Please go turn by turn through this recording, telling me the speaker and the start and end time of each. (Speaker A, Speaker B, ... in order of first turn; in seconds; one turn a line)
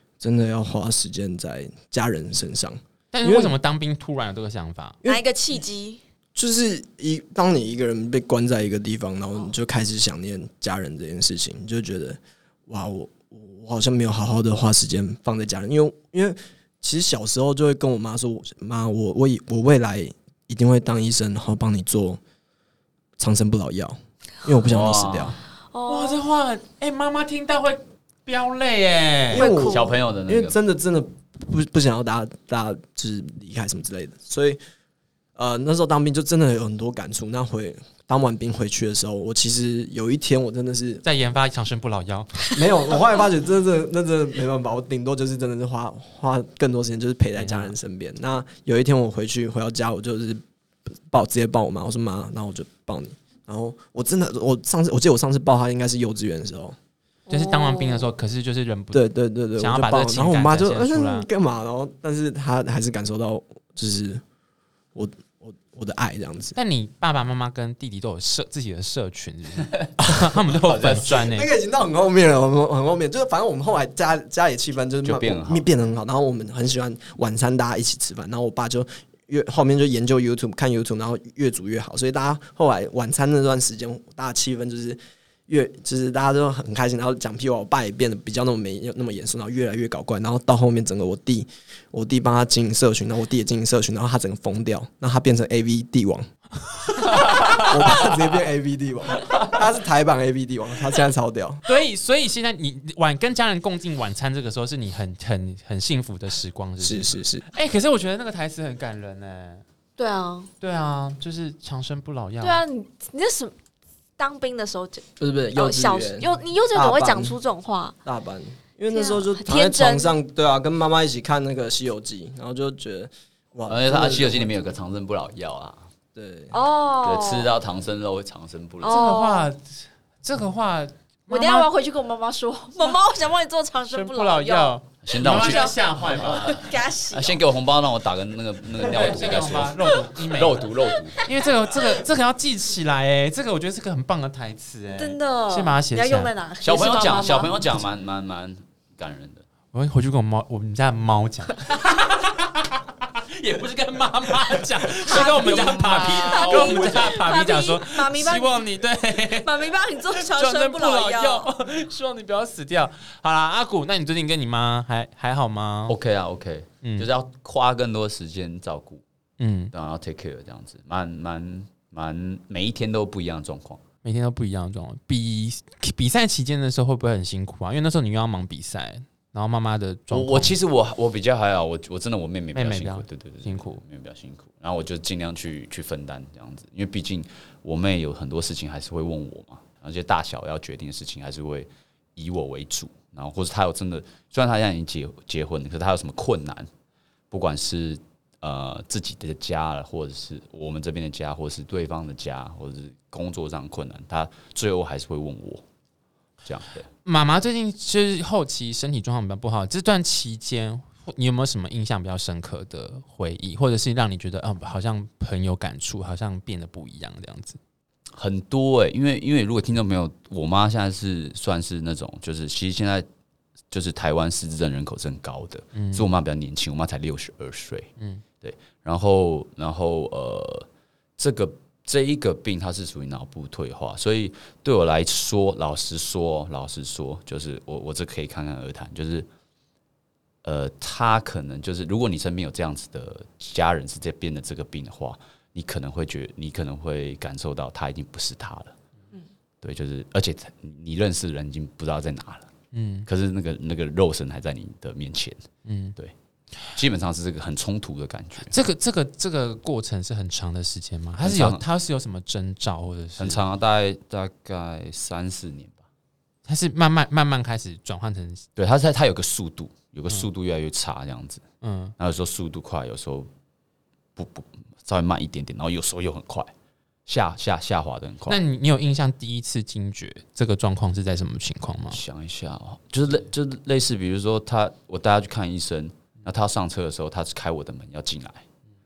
Speaker A: 0.2-3.5
Speaker B: 3.1-5.0
Speaker C: 5.0-6.0
Speaker A: 6.3-22.2
Speaker A: 23.2-25.4
Speaker D: 24.6-25.4
Speaker C: 25.7-26.2
Speaker B: 25.9-29.5
Speaker A: 29.3-34.6
Speaker C: 29.3-29.9
Speaker D: 29.4-30.5
Speaker A: 35.3-41.0
Speaker B: 41.0-42.5
Speaker A: 42.5-50.4
Speaker B: 47.4-47.7
Speaker A: 51.1-56.8
Speaker C: 57.3-58.1
Speaker B: 57.3-61.3
Speaker A: 58.9-64.2
Speaker A: 64.9-66.5
Speaker B: 66.5-71.5
Speaker D: 70.6-71.3
Speaker A: 71.1-96.3
Speaker D: 75.0-75.7
Speaker B: 97.0-98.0
Speaker A: 97.1-101.6
Speaker B: 101.7-109.6
Speaker A: 106.8-107.5
Speaker C: 110.0-110.5
Speaker B: 110.6-112.6
Speaker C: 112.4-113.5
Speaker C: 114.2-115.0
Speaker A: 115.2-117.4
Speaker C: 115.5-118.0
Speaker A: 118.0-124.5
Speaker C: 118.9-120.1
Speaker D: 123.7-125.9
Speaker A: 126.1-126.6
Speaker C: 126.5-127.5
Speaker D: 127.0-129.0
Speaker C: 128.8-129.5
Speaker B: 128.8-131.7
Speaker C: 131.3-137.4
Speaker B: 133.9-136.8
Speaker D: 135.0-135.7
Speaker D: 137.1-141.2
Speaker B: 138.8-140.7
Speaker B: 141.2-146.3
Speaker C: 144.9-147.5
Speaker D: 146.6-149.4
Speaker B: 149.7-165.9
Speaker C: 155.0-158.6
Speaker D: 155.1-157.1
Speaker C: 159.2-161.5
Speaker D: 165.9-169.0
Speaker B: 166.8-167.1
Speaker B: 169.4-169.7
Speaker D: 169.7-173.8
Speaker B: 174.0-180.6
Speaker D: 180.1-196.7
Speaker B: 182.5-183.8
Speaker D: 197.3-205.6
Speaker D: 206.4-206.9
Speaker B: 207.0-217.6
Speaker D: 218.2-223.1
Speaker D: 223.7-227.9
Speaker B: 225.7-226.1
Speaker B: 228.0-228.2
Speaker D: 228.4-239.3
Speaker D: 240.4-248.7
Speaker D: 249.6-252.5
Speaker B: 252.7-253.1
Speaker D: 253.1-256.1
Speaker B: 255.6-256.0
Speaker D: 256.7-258.5
Speaker B: 258.4-263.4
Speaker D: 261.2-261.6
Speaker D: 263.2-265.8
Speaker B: 266.4-268.4
Speaker D: 268.6-271.4
Speaker B: 271.6-271.9
Speaker D: 272.0-273.3
Speaker D: 274.1-276.5
Speaker D: 277.1-278.4
Speaker B: 278.3-282.0
Speaker D: 281.9-288.4